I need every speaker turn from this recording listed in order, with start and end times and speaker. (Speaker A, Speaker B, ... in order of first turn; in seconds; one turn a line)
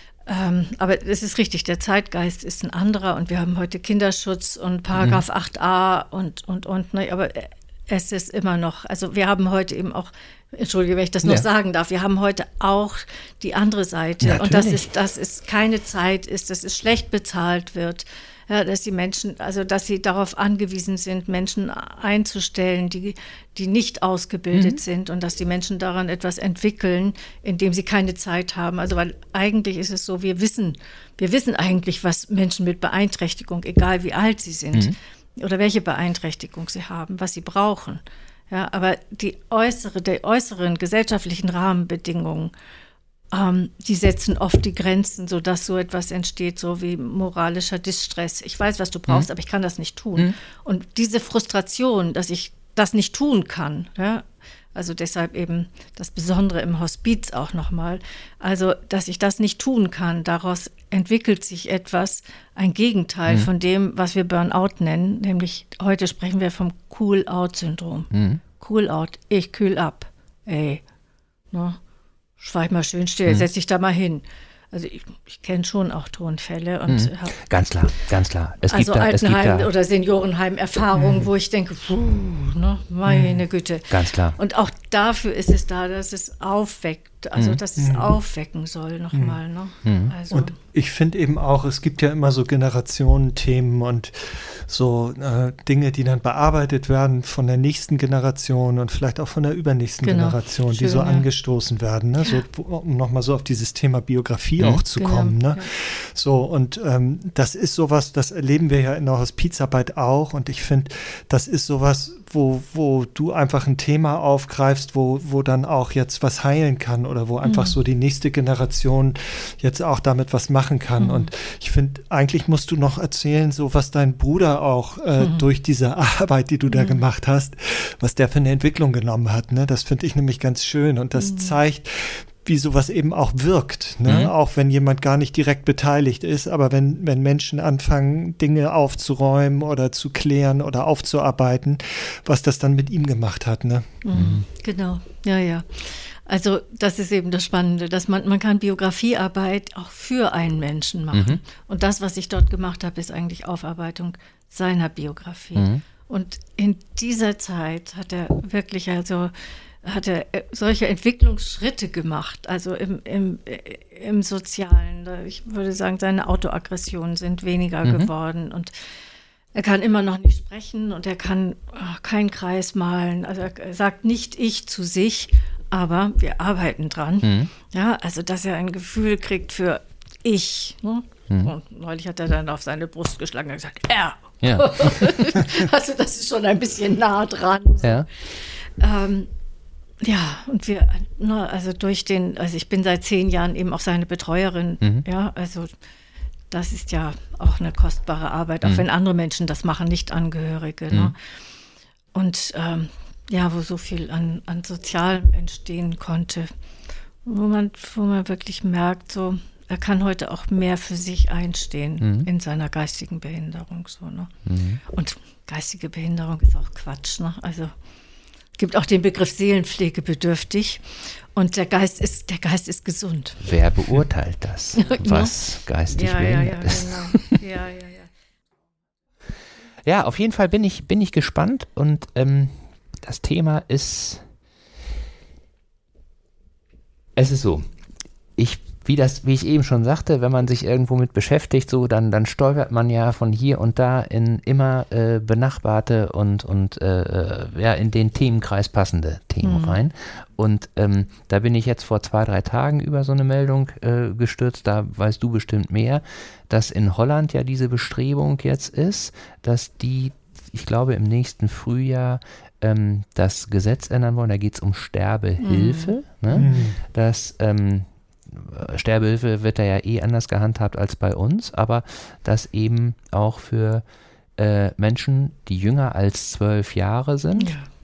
Speaker A: 0.3-42.5
Speaker B: 5.0-5.2
Speaker B: 14.2-14.9
Speaker B: 24.5-24.8
Speaker A: 43.3-70.8
Speaker B: 68.1-68.4
Speaker A: 71.5-71.8
Speaker A: 72.4-77.3
Speaker B: 76.9-79.7
Speaker A: 78.7-90.5
Speaker C: 80.9-81.3
Speaker C: 83.0-83.4
Speaker B: 83.9-84.4
Speaker C: 87.8-88.2
Speaker C: 89.1-89.4
Speaker B: 89.8-90.1
Speaker C: 90.3-144.0
Speaker A: 100.0-101.2
Speaker A: 105.0-105.7
Speaker A: 117.4-117.8
Speaker A: 121.0-121.3
Speaker A: 125.2-125.4
Speaker A: 126.7-127.0
Speaker A: 131.2-131.6
Speaker B: 134.0-134.3
Speaker A: 144.0-168.7
Speaker B: 144.1-144.4
Speaker B: 151.1-151.4
Speaker B: 155.5-155.8
Speaker B: 167.8-168.1
Speaker A: 169.5-188.0
Speaker B: 177.2-177.5
Speaker B: 184.4-185.4
Speaker B: 187.8-188.1
Speaker A: 188.6-189.3
Speaker A: 190.0-195.7
Speaker B: 194.8-195.1
Speaker A: 196.5-201.2
Speaker A: 202.1-206.5
Speaker A: 207.2-214.3
Speaker B: 212.0-212.3
Speaker B: 214.4-214.8
Speaker A: 214.9-217.7
Speaker A: 218.6-223.5
Speaker B: 223.4-227.4
Speaker A: 224.8-225.3
Speaker A: 225.9-228.1
Speaker B: 229.8-234.2
Speaker B: 237.2-237.6
Speaker B: 238.4-273.8
Speaker A: 249.4-249.8
Speaker A: 265.4-265.9
Speaker C: 266.3-266.8
Speaker B: 274.4-277.6
Speaker A: 277.4-277.7